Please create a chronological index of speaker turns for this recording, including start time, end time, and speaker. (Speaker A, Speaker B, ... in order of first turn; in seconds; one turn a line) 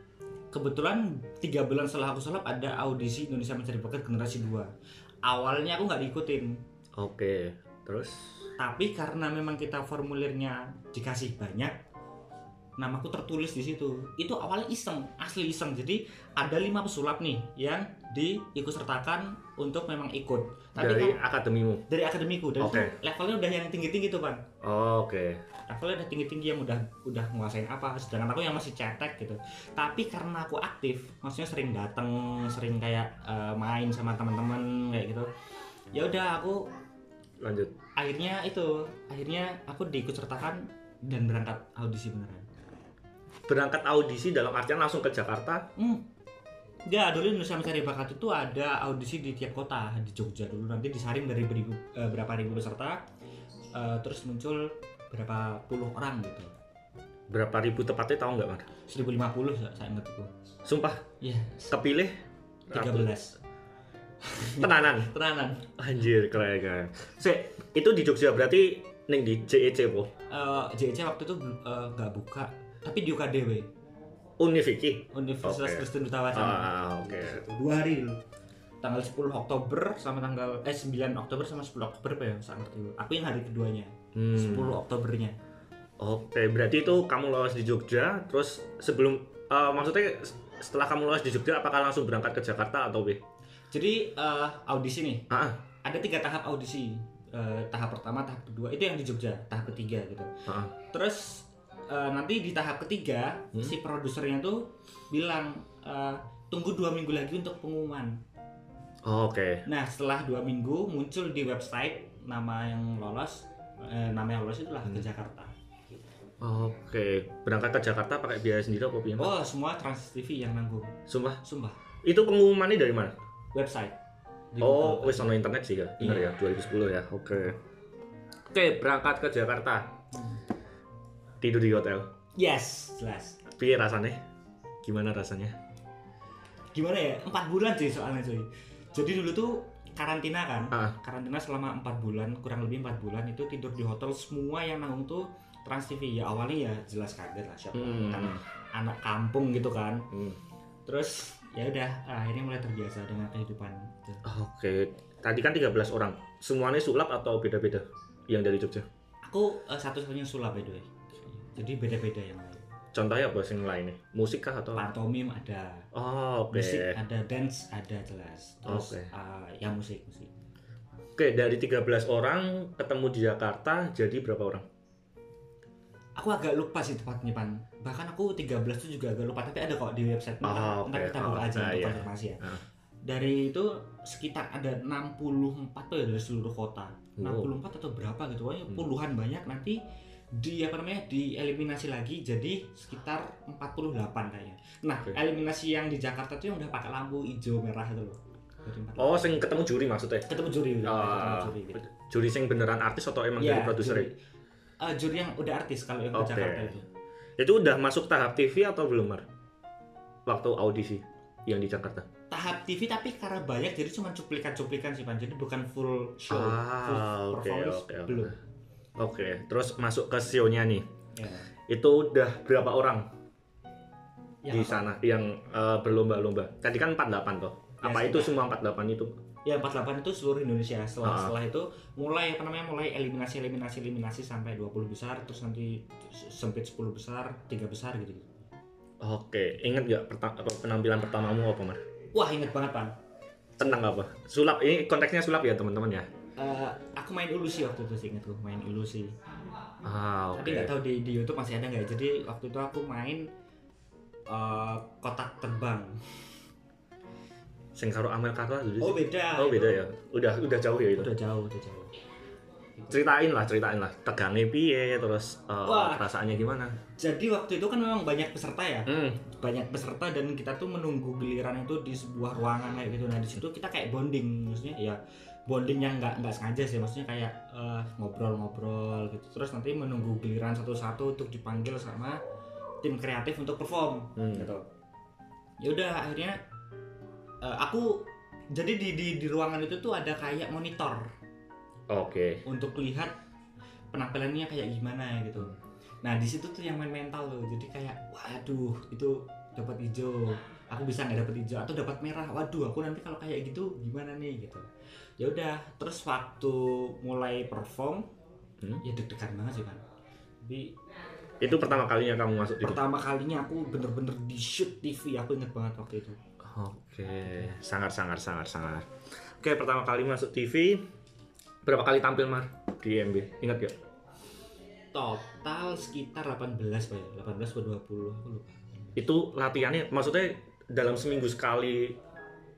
Speaker A: 0.5-4.7
Speaker A: 5.2-6.6
Speaker B: 7.0-8.4
Speaker A: 8.6-11.8
Speaker A: 12.8-21.2
Speaker B: 20.8-21.9
Speaker A: 21.9-24.4
Speaker B: 22.6-22.9
Speaker B: 24.6-25.4
Speaker A: 25.7-35.3
Speaker A: 35.9-36.7
Speaker B: 37.4-37.7
Speaker A: 38.0-42.5
Speaker B: 43.5-45.7
Speaker A: 45.8-46.0
Speaker A: 46.9-53.0
Speaker A: 53.7-56.5
Speaker B: 57.3-58.7
Speaker A: 58.9-60.3
Speaker B: 60.6-61.0
Speaker A: 61.2-61.7
Speaker B: 61.7-62.1
Speaker B: 62.7-63.1
Speaker A: 62.7-63.4
Speaker A: 64.2-65.7
Speaker B: 64.6-65.1
Speaker B: 65.8-70.1
Speaker A: 70.3-73.7
Speaker B: 74.4-77.4
Speaker A: 75.1-78.2
Speaker A: 78.8-85.4
Speaker B: 84.1-84.8
Speaker B: 86.0-93.2
Speaker A: 93.7-95.3
Speaker B: 95.3-95.6
Speaker A: 95.8-108.2
Speaker B: 100.5-100.7
Speaker B: 109.0-109.6
Speaker A: 109.7-115.5
Speaker B: 116.4-119.3
Speaker A: 119.2-121.8
Speaker B: 121.1-121.4
Speaker B: 122.0-123.1
Speaker A: 123.5-124.0
Speaker A: 124.5-125.4
Speaker B: 124.6-127.6
Speaker A: 126.0-126.3
Speaker B: 128.5-129.9
Speaker A: 130.1-130.4
Speaker B: 131.4-132.1
Speaker A: 132.4-133.4
Speaker B: 133.5-134.2
Speaker B: 134.8-135.6
Speaker A: 136.7-150.1
Speaker B: 140.7-141.0
Speaker B: 147.7-148.4
Speaker B: 150.1-150.4
Speaker A: 150.9-154.2
Speaker B: 154.2-158.9
Speaker A: 159.2-162.7
Speaker B: 162.9-164.9
Speaker A: 164.7-165.9
Speaker B: 165.9-167.0
Speaker A: 166.5-170.3
Speaker B: 168.7-169.1
Speaker B: 171.2-174.6
Speaker A: 176.2-189.8
Speaker B: 180.4-182.6
Speaker B: 187.2-187.5
Speaker A: 190.3-199.4
Speaker B: 198.9-200.3
Speaker A: 200.3-201.8
Speaker B: 200.8-204.1
Speaker A: 203.4-204.2
Speaker A: 204.8-206.8
Speaker B: 206.1-206.7
Speaker B: 207.4-209.2
Speaker B: 210.3-212.1
Speaker A: 212.3-218.4
Speaker B: 216.3-218.3
Speaker B: 219.0-220.8
Speaker A: 221.2-221.5
Speaker B: 221.7-223.1
Speaker A: 224.4-225.0
Speaker B: 224.5-229.1
Speaker A: 227.8-228.4
Speaker A: 229.4-238.4
Speaker B: 231.0-231.3
Speaker B: 239.0-241.8
Speaker A: 242.1-242.9
Speaker B: 243.6-246.1
Speaker A: 246.4-249.2
Speaker B: 249.8-250.8
Speaker A: 250.3-253.3
Speaker A: 254.3-256.2
Speaker B: 257.7-261.1
Speaker A: 258.8-259.9
Speaker A: 260.9-261.9
Speaker B: 262.9-266.8
Speaker A: 265.6-266.1
Speaker A: 267.0-282.2
Speaker B: 268.9-269.2
Speaker A: 282.8-284.6
Speaker B: 284.2-284.5
Speaker A: 285.6-286.4
Speaker A: 287.4-291.1
Speaker B: 291.9-292.4
Speaker A: 292.4-293.1
Speaker A: 293.9-304.7
Speaker A: 305.2-308.1
Speaker A: 308.8-309.8
Speaker A: 310.4-310.8
Speaker B: 311.4-312.8
Speaker A: 311.4-311.7
Speaker A: 312.6-316.2
Speaker B: 316.4-320.8
Speaker B: 321.6-323.8
Speaker A: 324.9-328.9
Speaker B: 328.9-332.0